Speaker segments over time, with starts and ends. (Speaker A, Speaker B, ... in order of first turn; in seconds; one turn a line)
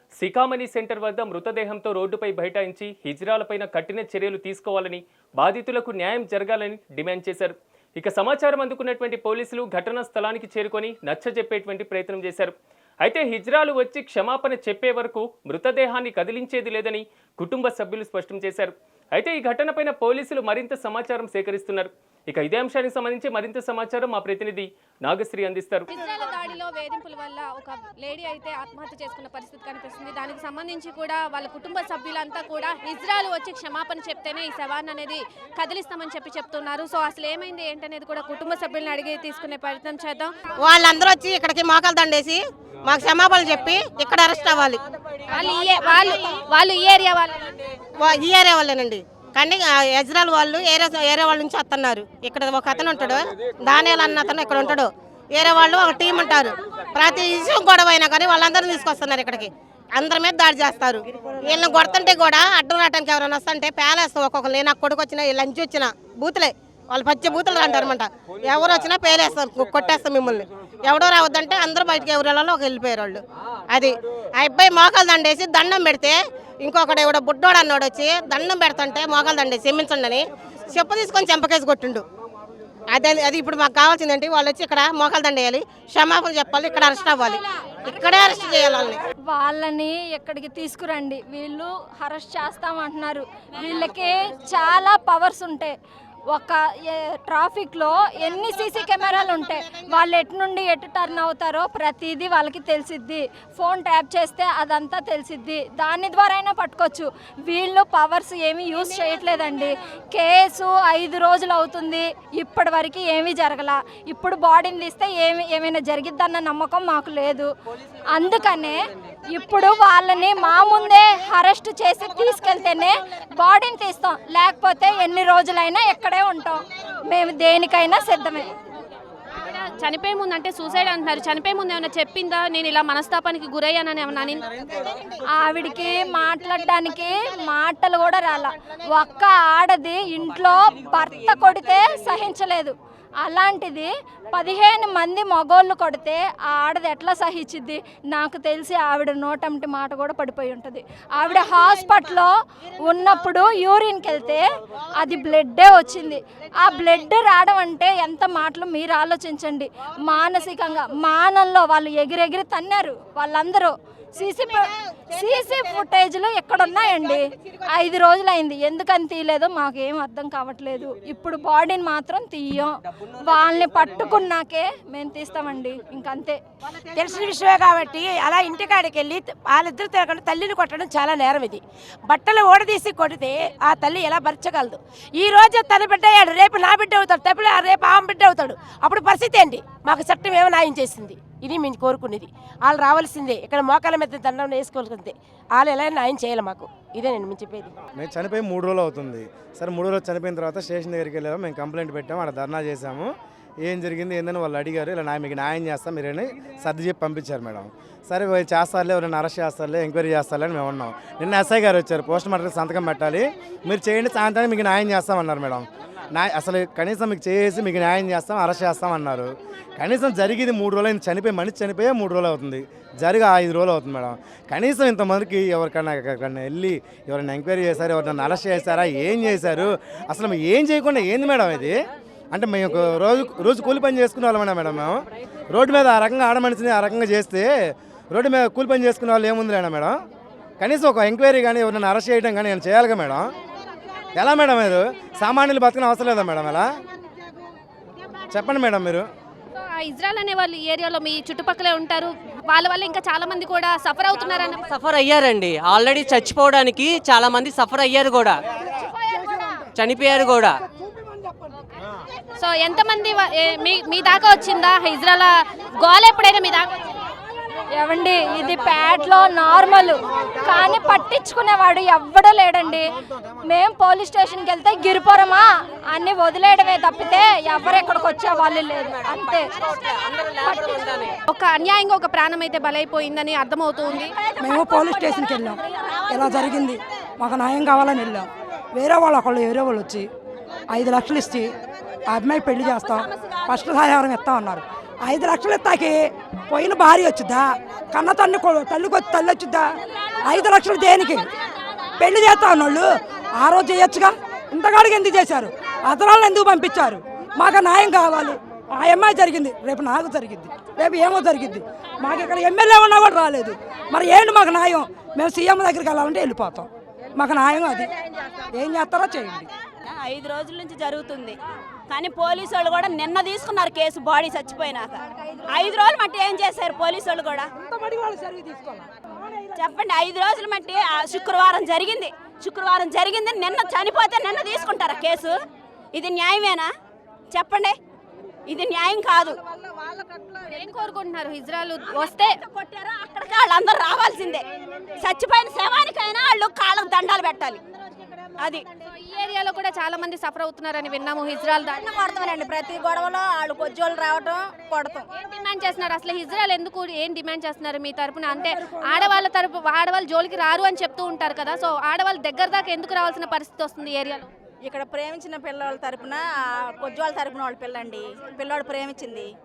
Speaker A: 0.2-25.9
Speaker B: 25.9-40.3
Speaker C: 40.6-44.8
Speaker B: 45.3-47.6
Speaker C: 48.0-82.0
Speaker C: 82.9-89.0
Speaker D: 89.3-95.7
Speaker D: 96.3-117.5
Speaker D: 118.1-128.5
Speaker B: 129.4-134.5
Speaker D: 135.2-154.4
Speaker D: 155.0-176.4
Speaker E: 176.9-197.7
Speaker F: 198.0-203.1
Speaker F: 203.6-231.8
Speaker F: 232.3-237.5
Speaker F: 238.1-239.9
Speaker F: 240.6-243.3
Speaker F: 244.2-246.7
Speaker F: 248.3-249.1
Speaker B: 249.6-254.7
Speaker G: 254.6-258.4
Speaker G: 259.7-260.5
Speaker B: 262.4-266.9
Speaker D: 267.7-272.8
Speaker D: 273.4-279.5
Speaker D: 280.4-281.1
Speaker B: 281.3-284.1
Speaker H: 283.9-286.7
Speaker I: 284.4-290.1
Speaker I: 290.7-291.5
Speaker I: 292.1-301.3
Speaker H: 292.8-293.7
Speaker I: 302.0-317.9
Speaker I: 318.5-319.5
Speaker H: 319.9-321.4
Speaker H: 321.9-327.5
Speaker I: 327.6-328.8
Speaker H: 329.5-335.4
Speaker H: 335.9-336.7
Speaker H: 337.3-337.8
Speaker H: 338.5-339.4
Speaker B: 340.5-342.4
Speaker H: 341.9-344.4
Speaker H: 345.0-347.6
Speaker B: 349.0-351.9
Speaker H: 351.7-355.0
Speaker B: 355.1-364.3
Speaker I: 358.3-359.1
Speaker H: 364.6-369.3